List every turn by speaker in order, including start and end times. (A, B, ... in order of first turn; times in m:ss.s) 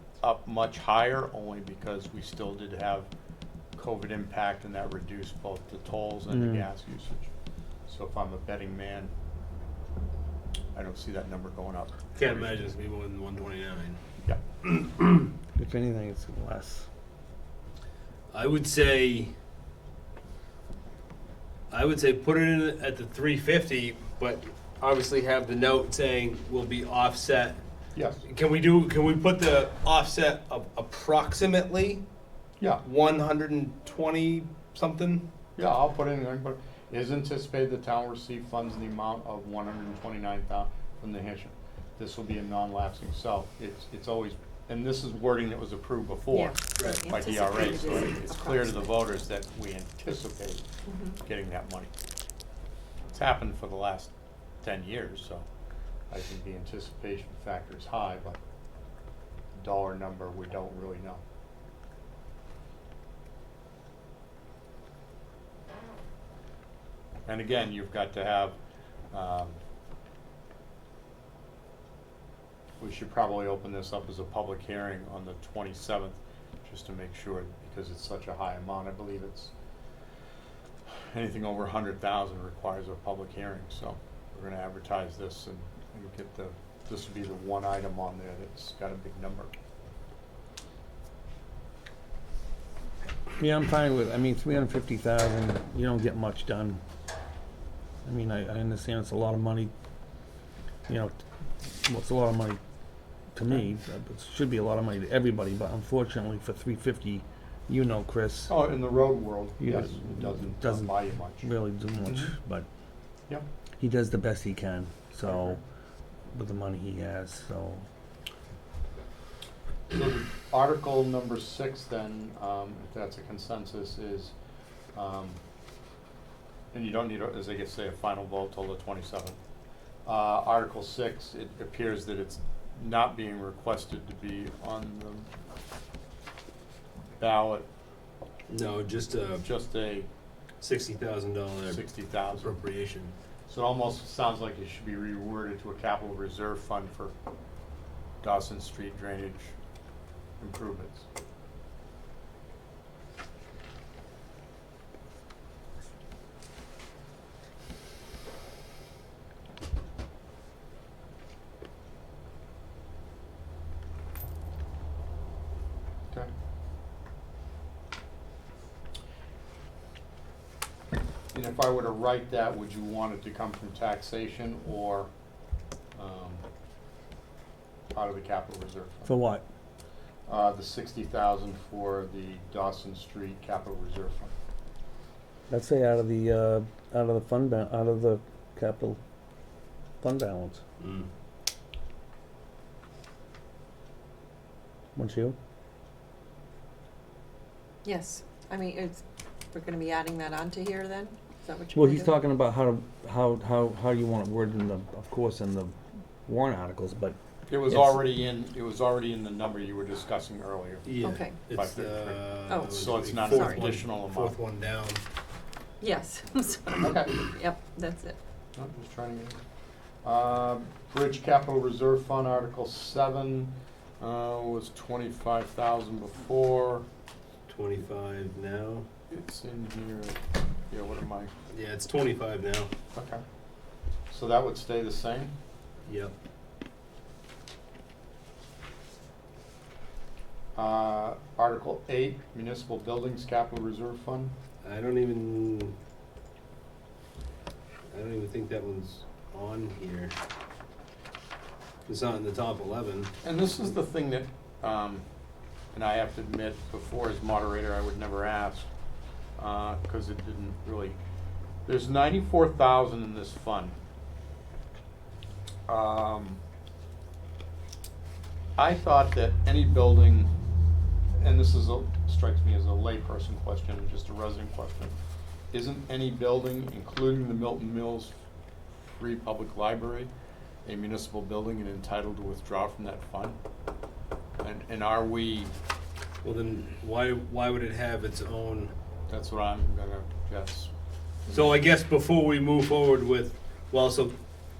0:00.2-0:03.1 A
0:03.8-0:07.3 A
0:06.3-0:06.6 B
0:07.9-0:09.1 A
0:10.7-0:12.7 A
0:12.2-0:14.0 C
0:14.6-0:15.2 C
0:15.6-0:16.9 B
0:18.3-0:19.3 C
0:21.7-0:27.6 C
0:27.9-0:28.2 A
0:28.2-0:32.0 C
0:32.8-0:35.2 C
0:35.6-0:50.6 A
0:46.3-0:48.9 D
0:46.8-0:47.0 C
0:50.9-0:51.1 D
0:51.2-0:51.9 A
0:53.1-0:55.4 A
0:56.1-0:58.4 A
0:59.5-1:01.2 A
1:07.2-1:08.6 A
1:09.1-1:09.6 A
1:12.8-1:19.5 A
1:20.9-1:29.5 A
1:33.4-1:36.8 B
1:38.0-1:39.7 B
1:40.9-1:42.6 B
1:43.3-1:48.5 B
1:48.5-1:51.5 A
1:49.6-1:52.7 B
1:52.0-1:52.3 A
1:53.8-1:55.6 B
1:55.2-1:55.6 A
1:56.3-1:57.8 B
1:59.9-2:04.3 A
2:04.9-2:05.4 A
2:06.7-2:09.4 A
2:10.0-2:15.3 A
2:17.2-2:17.7 A
2:18.5-2:19.4 C
2:19.4-2:20.1 A
2:20.6-2:23.1 C
2:21.6-2:22.6 A
2:23.5-2:27.1 A
2:28.2-2:29.5 A
2:30.4-2:31.0 A
2:51.3-2:55.1 A
2:55.9-2:56.4 A
2:57.9-2:59.1 A
2:59.0-2:59.4 B
3:00.3-3:04.3 A
3:05.5-3:09.0 B
3:10.0-3:10.6 B
3:10.8-3:11.1 C
3:15.0-3:15.4 B
3:17.8-3:22.1 D
3:21.7-3:25.7 B
3:26.2-3:27.2 B
3:27.5-3:34.4 A
3:27.7-3:28.0 B
3:30.8-3:35.0 C
3:31.0-3:31.4 D
3:32.5-3:33.8 D
3:35.8-3:38.2 D
3:36.8-3:37.2 A
3:38.6-3:39.4 A
3:40.0-3:46.8 A
3:47.5-3:48.8 C
3:49.1-3:51.3 A
3:51.5-3:52.7 C
3:52.9-3:53.2 A
3:54.1-3:55.3 A
3:55.8-3:56.1 C
4:00.6-4:04.3 A
4:04.6-4:05.7 C
4:07.9-4:10.1 C
4:11.9-4:13.1 C
4:13.2-4:15.0 A
4:15.7-4:18.7 A
4:19.4-4:21.0 A
4:21.6-4:23.7 A
4:25.7-4:26.4 A
4:28.6-4:30.3 A
4:31.2-4:35.0 A
4:35.5-4:38.1 A
4:38.8-4:40.1 A
4:40.6-4:43.4 A
4:44.4-4:45.5 A
4:46.2-4:48.7 C
4:49.1-4:50.7 A
4:51.2-4:51.6 A
4:51.3-4:54.1 C